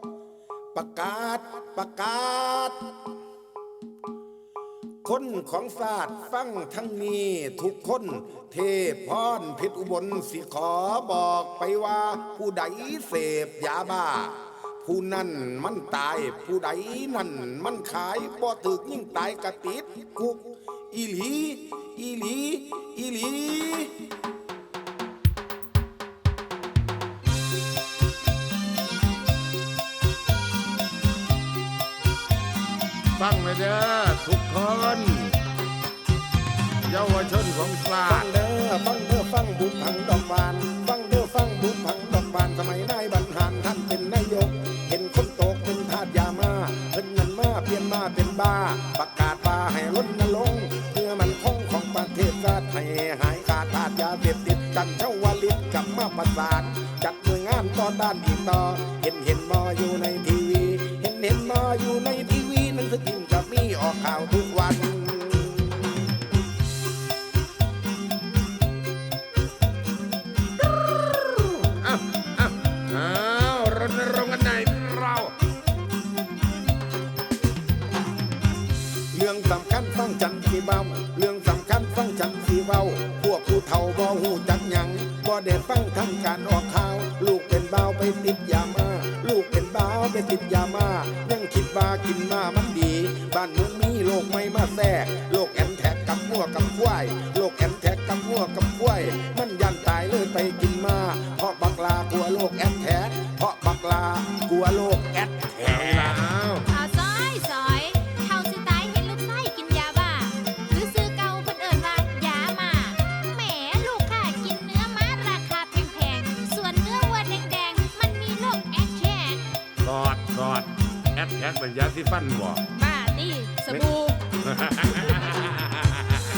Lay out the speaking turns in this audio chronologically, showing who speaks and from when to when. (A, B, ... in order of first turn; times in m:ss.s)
0:00.7-0:03.0 A
0:05.0-0:24.0 A
0:33.2-0:35.4 B
0:36.8-0:38.3 B
0:38.1-1:06.0 A
1:11.0-1:15.3 B
1:19.1-1:46.3 A
1:45.6-1:46.7 B
1:46.7-1:59.4 C
1:59.8-2:02.6 B
2:02.7-2:04.2 C
2:04.4-2:06.2 B